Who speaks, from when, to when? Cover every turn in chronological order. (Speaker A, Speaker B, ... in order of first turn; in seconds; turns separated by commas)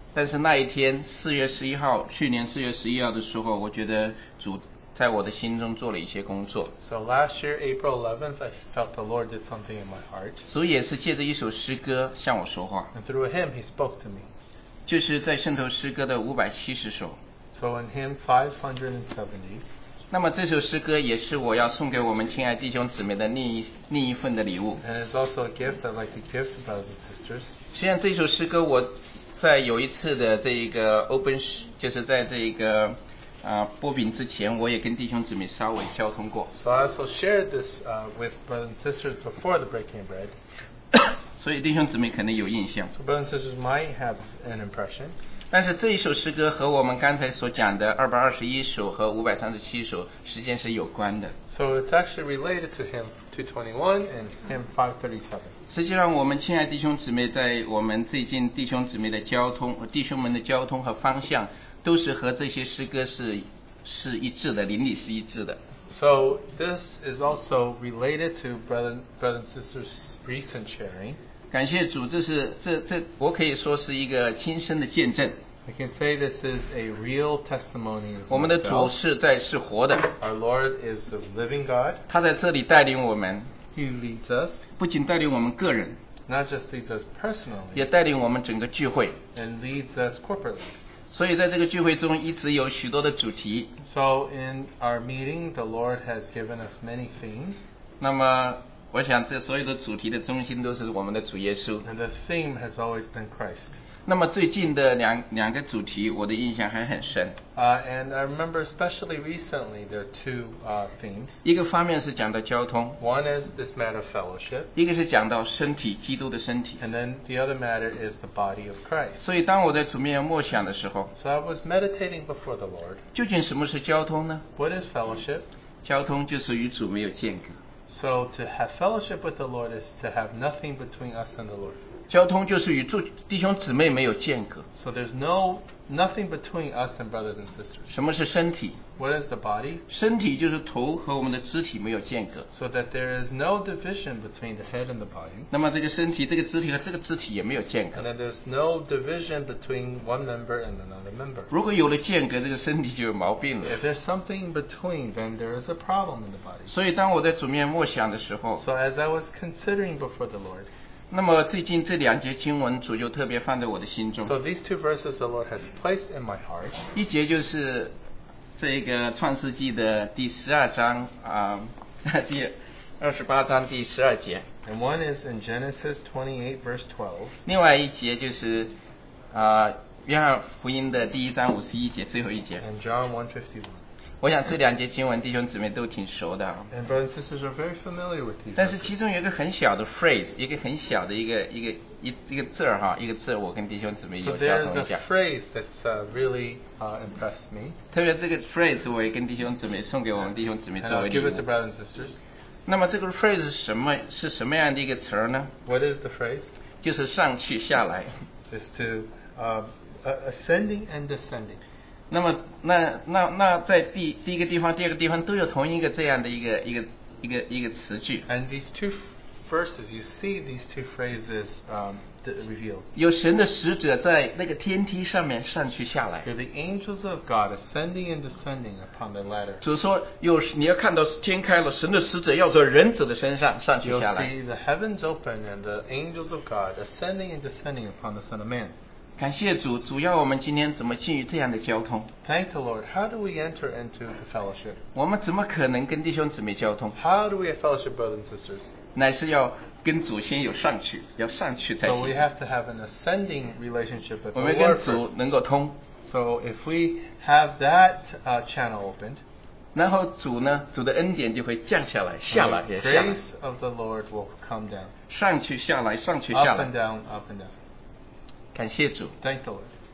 Speaker A: 0.1-6.7, Speaker B: 6.8-10.5, Speaker A: 10.5-12.9, Speaker B: 12.9-14.3, Speaker A: 14.9-17.2, Speaker B: 17.5-19.6, Speaker A: 20.1-24.8, Speaker B: 24.8-27.5, Speaker A: 27.7-36.5, Speaker B: 36.5-40.3, Speaker A: 41.4-42.9, Speaker B: 42.9-45.1, Speaker A: 45.5-51.4, Speaker B: 51.5-55.5, Speaker A: 55.7-65.6, Speaker B: 65.9-71.2, Speaker A: 71.5-75.4, Speaker B: 75.7-79.0, Speaker A: 78.3-80.1, Speaker B: 80.2-82.0, Speaker A: 82.1-83.5, Speaker B: 83.7-84.7, Speaker A: 84.8-86.0, Speaker B: 86.3-87.9, Speaker A: 87.8-89.2, Speaker B: 89.3-90.8, Speaker A: 91.1-93.8, Speaker B: 93.8-97.7, Speaker A: 98.0-101.9, Speaker B: 101.8-103.8, Speaker A: 104.1-107.4, Speaker B: 107.5-111.4, Speaker A: 111.4-113.0, Speaker B: 113.0-114.7, Speaker A: 114.8-116.8, Speaker B: 116.8-119.2, Speaker A: 119.2-121.1, Speaker B: 121.2-123.0, Speaker A: 123.1-124.5, Speaker B: 124.6-125.5, Speaker A: 125.8-127.6, Speaker B: 127.9-131.8, Speaker A: 132.1-134.7, Speaker B: 134.8-138.0, Speaker A: 137.9-138.8, Speaker B: 139.0-139.8, Speaker A: 139.9-142.5, Speaker B: 142.5-145.5, Speaker A: 145.5-148.1, Speaker B: 147.9-151.5, Speaker A: 151.5-153.8, Speaker B: 153.6-156.7, Speaker A: 156.7-158.6, Speaker B: 158.6-160.7, Speaker A: 161.1-164.3, Speaker B: 164.2-166.8, Speaker A: 166.9-167.9, Speaker A: 168.6-174.5, Speaker B: 174.7-177.4, Speaker A: 177.4-178.7, Speaker A: 179.3-182.6, Speaker B: 182.6-183.8, Speaker A: 184.2-186.7, Speaker B: 186.7-188.9, Speaker A: 188.6-195.0, Speaker B: 194.2-197.8, Speaker A: 197.9-201.4, Speaker B: 200.8-202.2, Speaker A: 202.7-205.5, Speaker B: 205.7-206.5, Speaker A: 206.8-208.1, Speaker B: 208.5-211.6, Speaker A: 212.1-218.3, Speaker B: 218.3-222.9, Speaker A: 222.9-226.3, Speaker B: 226.2-229.6, Speaker A: 229.6-234.3, Speaker B: 233.8-238.7, Speaker A: 239.2-242.1, Speaker B: 242.2-244.8, Speaker A: 244.9-247.0, Speaker B: 246.9-248.7, Speaker A: 248.9-252.2, Speaker B: 251.8-255.1, Speaker A: 254.3-255.8, Speaker B: 256.0-259.2, Speaker A: 259.8-263.2, Speaker B: 262.3-264.9, Speaker A: 265.1-266.7, Speaker B: 266.3-267.5, Speaker A: 268.5-269.1, Speaker B: 269.2-269.7